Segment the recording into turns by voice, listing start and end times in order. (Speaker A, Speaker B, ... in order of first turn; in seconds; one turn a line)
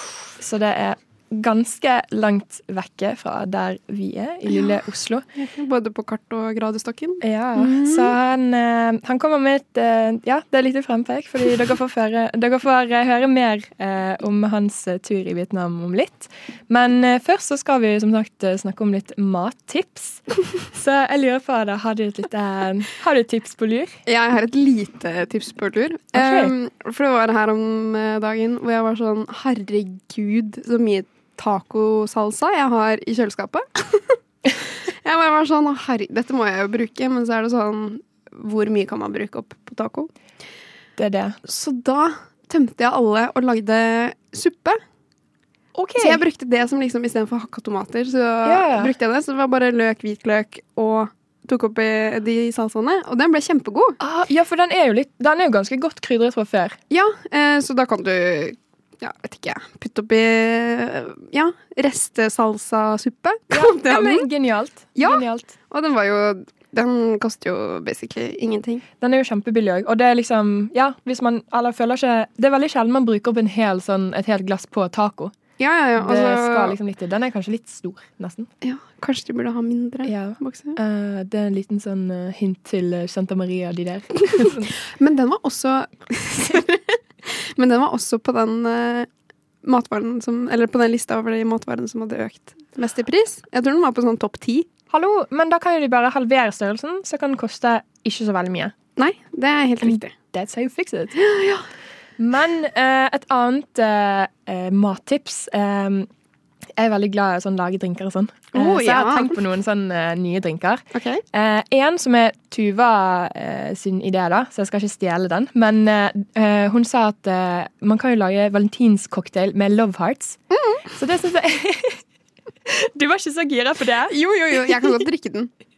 Speaker A: 0.3-5.2
Speaker B: 5.3-8.1
Speaker A: 7.2-23.9
Speaker B: 24.1-34.2
Speaker A: 26.1-26.5
Speaker B: 34.9-40.1
Speaker A: 41.0-41.4
Speaker B: 41.4-44.8
Speaker A: 45.7-46.2
Speaker B: 46.0-54.0
Speaker A: 48.4-48.9
Speaker A: 54.0-56.8
Speaker B: 56.9-64.3
Speaker A: 63.5-65.5
Speaker B: 65.0-68.8
Speaker A: 69.0-75.4
Speaker B: 75.6-76.8
Speaker A: 76.0-78.5
Speaker B: 78.6-80.8
Speaker A: 80.0-84.7
Speaker B: 84.4-89.1
Speaker B: 89.6-94.7
Speaker A: 94.9-98.7
Speaker B: 99.0-100.1
Speaker A: 99.8-101.1
Speaker B: 101.2-101.7
Speaker A: 102.2-106.1
Speaker A: 106.8-122.0
Speaker B: 108.5-109.4
Speaker B: 110.9-111.2
Speaker B: 120.5-120.8
Speaker A: 122.7-125.0
Speaker B: 124.1-125.5